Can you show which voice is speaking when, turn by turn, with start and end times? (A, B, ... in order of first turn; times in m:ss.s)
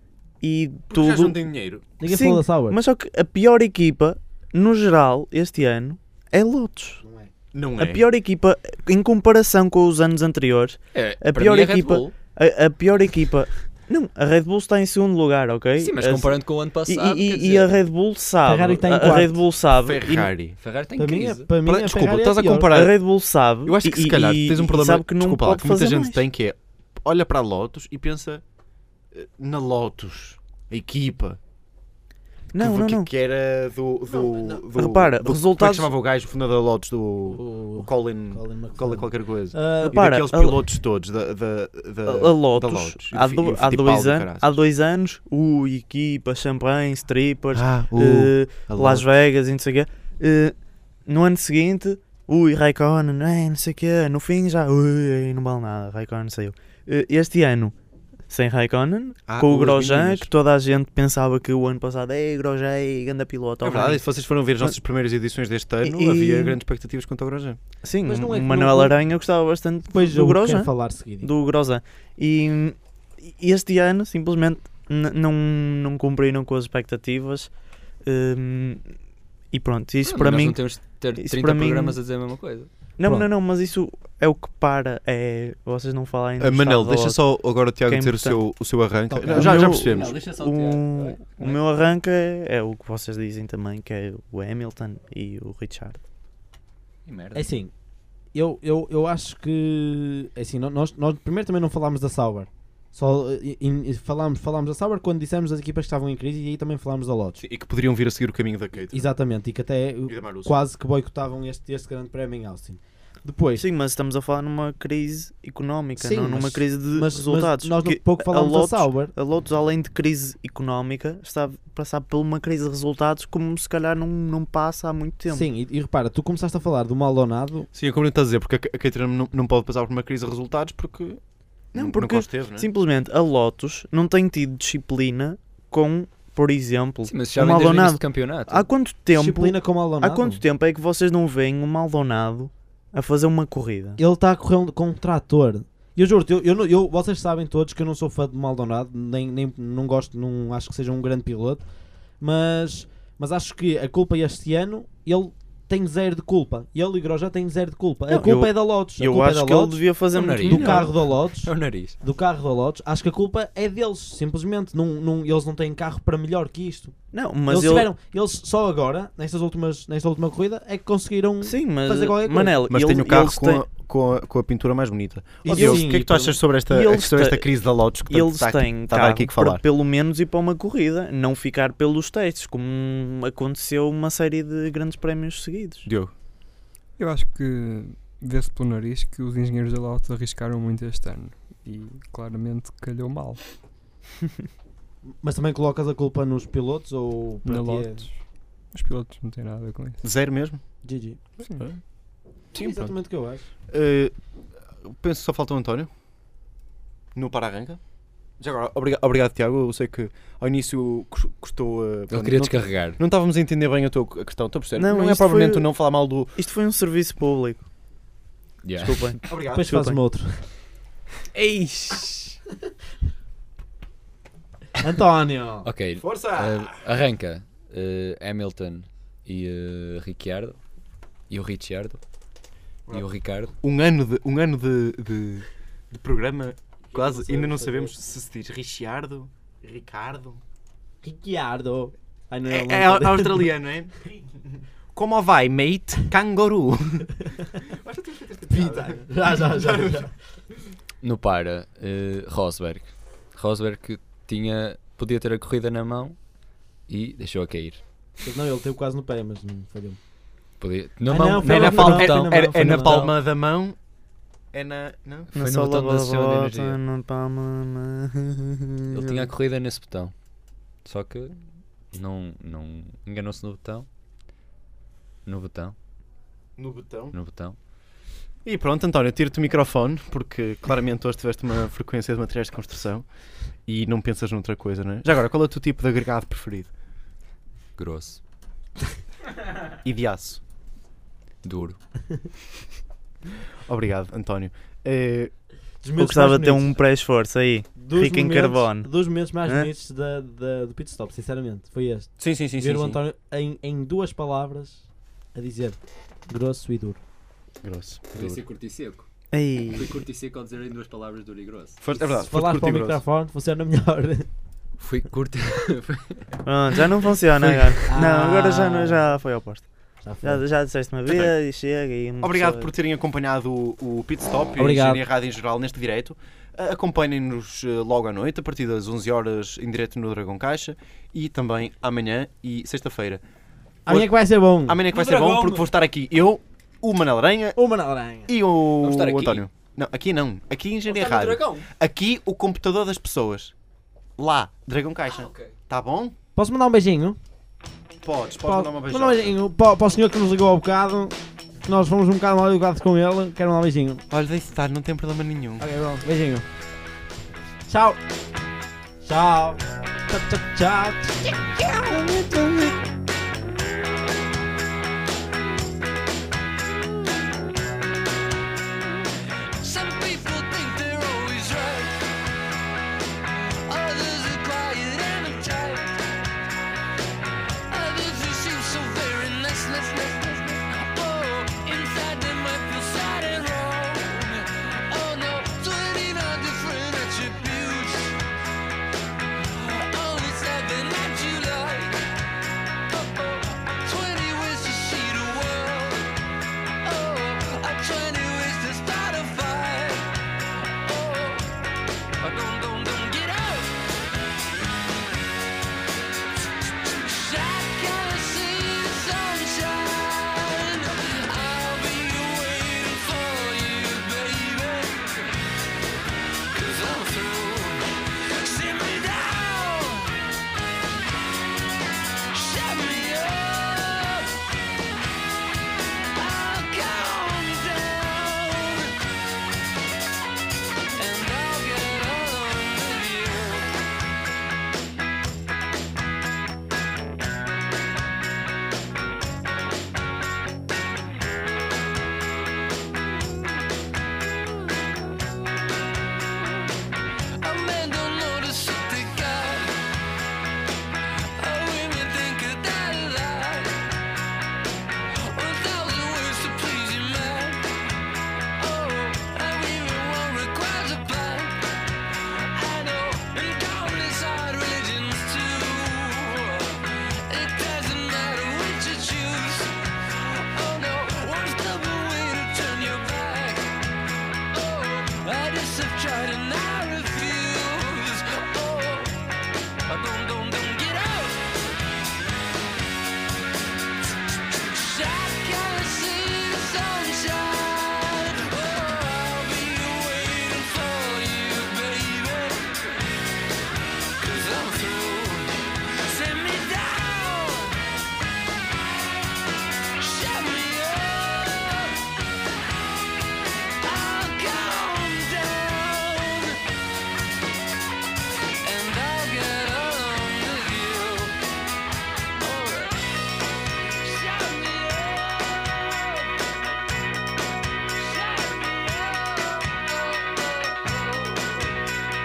0:00.4-0:01.4 A
0:00.9-0:01.8 B
0:02.0-0:02.8 C
0:02.0-0:07.0 A
0:07.0-0:07.3 C
0:07.5-0:08.0 B
0:07.8-0:20.3 A
0:10.9-0:12.1 D
0:15.8-0:17.7 D
0:18.4-0:19.4 C
0:19.8-0:20.6 B
0:20.6-0:21.5 D
0:21.0-0:22.7 C
0:21.6-0:22.9 B
0:22.7-0:26.2 A
0:23.6-0:28.4 B
0:29.1-0:31.4 B
0:32.5-0:33.1 A
0:32.6-0:44.6 B
0:34.1-0:34.6 C
0:34.7-0:35.9 A
0:37.3-0:40.0 C
0:39.8-0:40.6 A
0:42.0-0:50.5 A
0:47.5-0:49.0 B
0:51.0-0:57.7 A
0:58.3-1:04.8 A
0:59.3-1:00.3 B
1:03.6-1:07.6 B
1:05.8-1:06.6 A
1:07.8-1:19.0 A
1:08.0-1:09.0 C
1:09.9-1:11.3 C
1:19.5-1:22.0 A
1:20.0-1:22.7 D
1:23.0-1:28.4 A
1:23.0-1:23.3 C
1:26.4-1:30.2 B
1:29.1-1:29.7 C
1:29.2-1:31.6 D
1:29.4-1:36.0 A
1:37.0-1:37.6 D
1:37.3-1:37.7 C
1:38.3-1:47.4 C
1:47.4-1:49.1 B
1:48.9-1:53.6 C
1:50.1-1:50.6 B
1:53.6-2:05.5 A
1:56.0-1:59.1 C
2:05.3-2:07.7 C
2:07.7-2:11.2 B
2:11.7-2:12.7 B
2:11.7-2:24.0 A
2:17.0-2:18.7 D
2:19.1-2:20.4 C
2:24.0-2:31.6 C
2:32.2-2:39.9 C
2:38.1-2:40.9 A
2:40.1-2:42.0 D
2:40.4-2:47.0 C
2:47.1-2:47.9 A
2:47.5-2:52.6 C
2:51.4-2:53.6 A
2:52.7-2:59.6 B
2:55.4-2:56.4 C
2:55.5-2:56.0 A
2:56.6-3:05.9 A
3:05.8-3:06.1 B
3:07.0-3:13.4 E
3:15.0-3:18.1 C
3:17.4-3:20.1 E
3:20.0-3:20.6 B
3:20.8-3:21.2 C
3:22.5-3:22.9 B
3:22.5-3:23.5 C
3:23.7-3:24.2 B
3:24.8-3:25.9 B
3:27.1-3:27.8 B
3:28.4-3:36.3 B
3:32.1-3:33.0 D
3:34.8-3:35.7 A
3:36.3-3:37.6 A
3:38.6-3:39.2 D
3:38.8-3:40.0 A
3:39.2-3:39.7 B
3:39.5-3:40.5 C
3:41.3-3:42.4 D
3:44.8-3:45.7 C
3:45.6-3:50.6 D
3:46.0-3:46.8 B
3:51.3-3:52.0 D
3:52.9-4:00.4 B
3:52.9-3:53.5 D
3:56.9-3:57.9 C
4:01.0-4:03.5 C
4:02.4-4:04.0 B
4:04.9-4:10.1 B
4:08.5-4:10.1 C
4:11.0-4:16.2 D
4:16.9-4:17.8 D
4:18.2-4:20.0 C
4:20.6-4:23.2 D
4:21.1-4:23.1 C
4:21.4-4:23.8 B
4:24.5-4:25.3 B
4:25.3-4:29.3 A
4:25.3-4:26.8 D
4:28.9-4:30.1 D
4:30.8-4:31.4 D
4:31.9-4:33.9 D
4:35.2-4:35.8 D
4:36.6-4:37.2 B
4:37.1-4:37.6 D
4:38.4-4:43.1 B
4:43.6-4:46.7 B
4:47.8-4:48.2 D
4:49.8-4:50.4 B
4:51.4-4:51.8 D
4:53.6-4:55.3 B
4:55.8-4:56.8 C
4:56.0-4:58.9 A
4:57.8-5:07.0 C
5:02.2-5:03.0 B
5:07.6-5:08.4 B
5:08.1-5:09.1 D
5:09.3-5:09.9 A
5:09.7-5:11.8 D
5:11.8-5:13.0 B
5:11.9-5:14.3 C
5:14.8-5:16.2 D
5:16.4-5:22.7 A
5:17.9-5:19.1 C
5:20.0-5:20.4 C
5:22.2-5:33.2 B
5:24.6-5:25.0 C
5:33.8-5:34.8 C
5:33.8-5:37.6 B
5:34.9-5:35.7 D
5:37.6-5:38.3 C
5:38.3-5:43.5 B
5:38.8-5:39.4 D
5:40.8-5:41.7 D
5:44.2-5:46.2 B
5:45.1-5:45.5 D
5:46.4-5:47.2 C
5:48.0-5:49.4 B
5:48.4-5:54.0 C
5:54.1-5:55.7 B
5:55.6-5:56.4 C
5:57.6-5:58.0 C
5:59.0-6:02.8 C
6:09.6-6:12.0 F
6:13.5-6:16.0 F
6:17.7-6:28.2 F
6:29.4-6:32.1 F
6:32.9-6:36.2 F
6:36.8-6:41.5 F
6:42.2-6:43.8 F
6:46.9-6:55.3 F
6:56.5-7:00.2 F
7:02.3-7:04.3 F
7:06.1-7:09.0 F
7:10.9-7:13.7 F
7:27.4-7:29.8 F
7:31.4-7:33.9 F
7:35.1-7:37.7 F
7:38.5-7:54.0 F
7:54.5-7:59.2 F
7:59.8-8:01.5 F
8:04.5-8:13.0 F
8:14.2-8:17.8 F
8:20.0-8:22.0 F
8:23.8-8:26.6 F
8:28.6-8:31.4 F
8:32.4-8:33.2 F
8:34.0-8:36.3 F
8:37.9-8:41.7 F